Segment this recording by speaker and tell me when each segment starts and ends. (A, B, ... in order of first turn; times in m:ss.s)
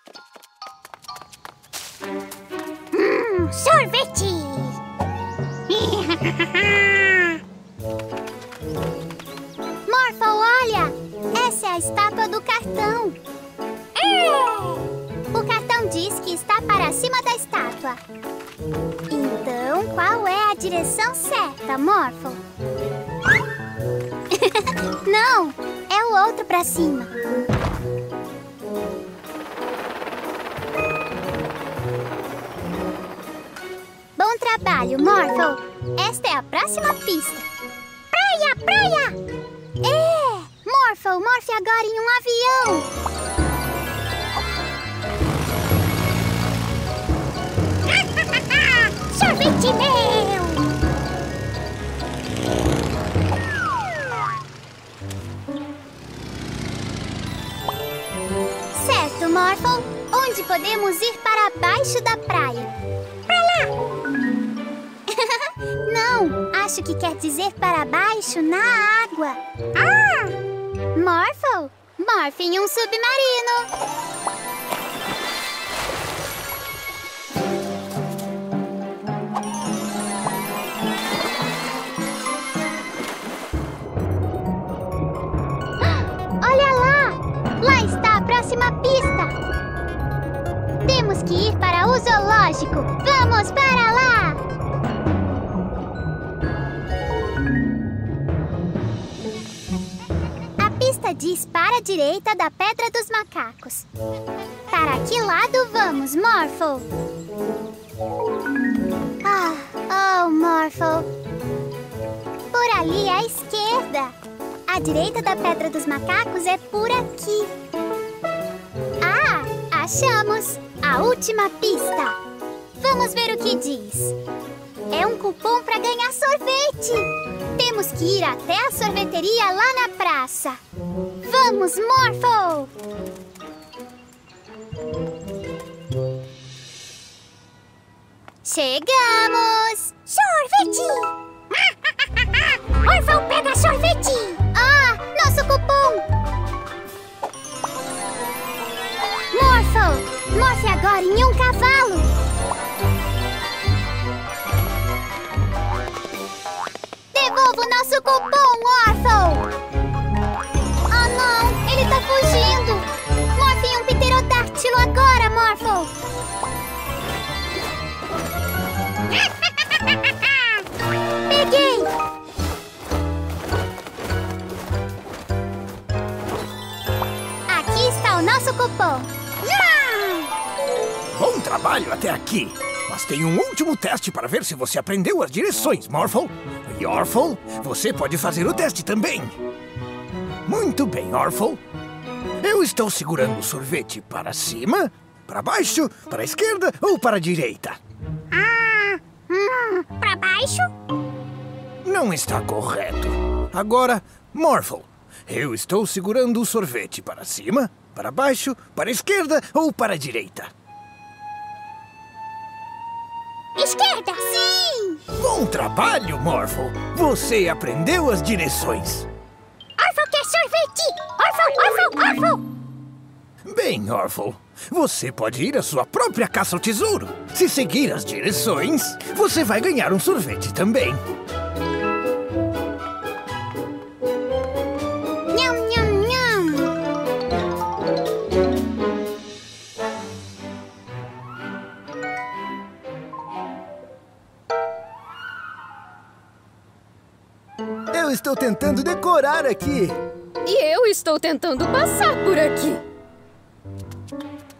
0:02.9-0:04.8 A
0:05.7-0:07.3 A
0:09.9-0:13.2 A
0:14.0-0:18.0 A
0:19.1-0:22.4 A
0:24.3-0:27.1 A
0:34.2-0:37.5 A
0:38.1-0:39.2 A
0:39.8-0:42.9 A
0:49.1-0:50.7 A
0:58.7-1:02.7 A
1:03.3-1:03.7 A
1:05.1-1:10.3 A
1:10.9-1:13.7 A
1:25.8-1:29.3 A
1:30.8-1:34.4 A
1:40.6-1:43.9 A
1:44.7-1:46.8 A
1:49.2-1:51.1 A
1:52.5-1:54.2 A
1:54.7-1:57.5 A
1:59.0-2:02.2 A
2:02.8-2:04.1 A
2:04.9-2:10.6 A
2:11.2-2:12.7 A
2:18.4-2:21.1 A
2:22.2-2:26.0 A
2:29.3-2:32.1 A
2:37.1-2:39.5 A
2:40.9-2:45.9 A
2:49.6-2:50.0 A
2:51.3-2:51.9 A
2:57.5-3:00.2 A
3:01.1-3:09.3 B
3:10.4-3:11.6 B
3:12.4-3:17.8 B
3:18.3-3:20.7 A
3:21.8-3:30.5 B
3:33.6-3:35.0 A
3:35.2-3:39.1 B
3:39.8-3:42.4 A
3:43.4-3:51.0 B
3:55.3-3:56.7 A
4:07.9-4:10.0 B
4:10.4-4:12.8 C